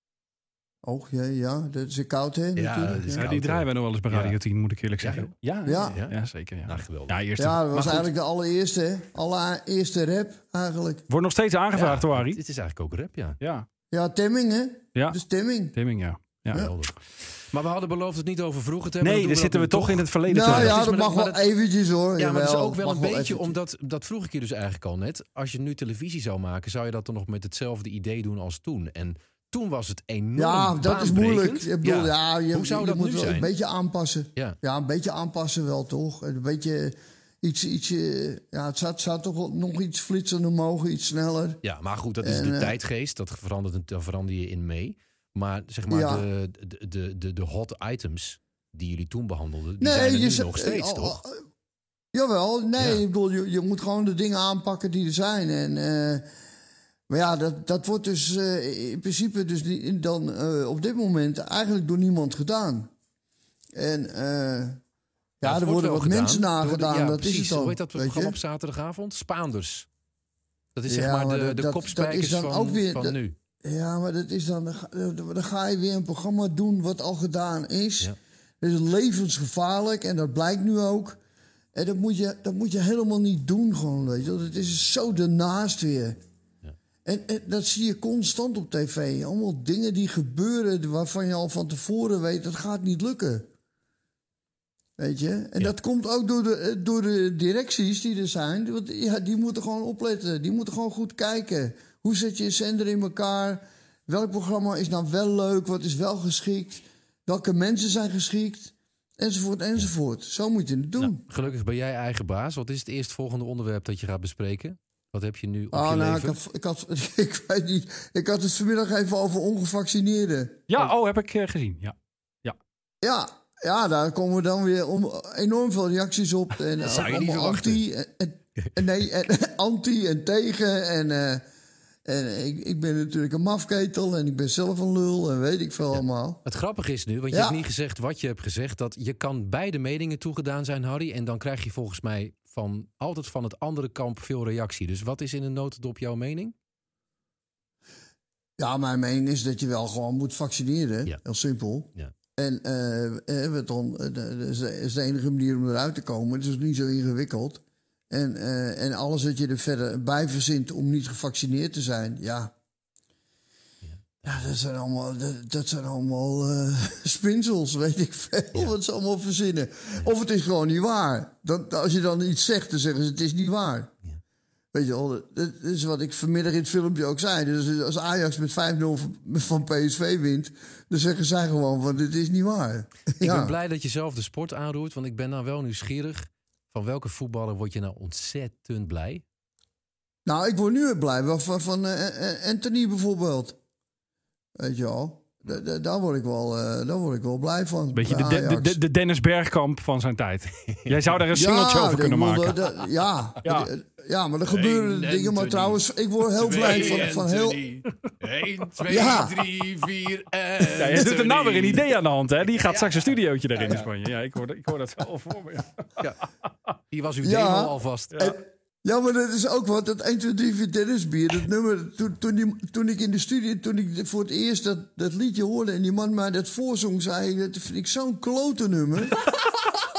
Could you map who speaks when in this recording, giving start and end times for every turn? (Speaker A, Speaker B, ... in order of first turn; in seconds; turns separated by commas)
Speaker A: 0.8-3.2, Speaker B: 2.5-4.3, Speaker C: 3.1-8.1, Speaker B: 5.0-7.2, Speaker A: 5.7-6.0, Speaker A: 7.4-11.0, Speaker C: 11.1-12.4, Speaker B: 11.7-13.4, Speaker C: 13.4-13.7, Speaker A: 13.9-15.8, Speaker C: 14.9-15.2, Speaker C: 15.7-16.6, Speaker B: 16.5-21.4, Speaker C: 19.0-20.8, Speaker A: 20.3-23.6, Speaker B: 22.2-33.5, Speaker A: 30.4-41.6, Speaker B: 41.6-51.2, Speaker A: 42.2-42.7, Speaker A: 45.9-46.2, Speaker A: 49.8-51.3, Speaker A: 52.1-56.2, Speaker B: 52.8-53.0, Speaker A: 57.1-62.9, Speaker A: 63.7-64.8, Speaker A: 65.4-68.3, Speaker B: 65.4-69.9, Speaker B: 70.7-73.3, Speaker A: 70.9-81.2, Speaker A: 81.7-86.2, Speaker A: 87.0-93.5, Speaker A: 95.0-111.2, Speaker B: 111.2-116.4, Speaker A: 115.7-120.7, Speaker C: 120.7-122.6, Speaker A: 123.0-131.4, Speaker B: 126.8-127.8, Speaker A: 132.1-136.4, Speaker B: 135.9-146.5, Speaker A: 137.3-137.6, Speaker A: 148.6-162.5, Speaker B: 163.9-164.4, Speaker A: 164.2-173.9, Speaker A: 174.7-183.5, Speaker B: 183.2-189.2, Speaker A: 190.2-193.6, Speaker A: 194.6-198.8, Speaker C: 197.9-202.7, Speaker B: 200.7-201.1, Speaker A: 201.3-207.6, Speaker C: 203.4-203.7, Speaker B: 204.4-211.9, Speaker A: 208.9-209.4, Speaker C: 210.6-216.0, Speaker B: 212.6-213.9, Speaker B: 216.9-218.2, Speaker A: 217.2-229.3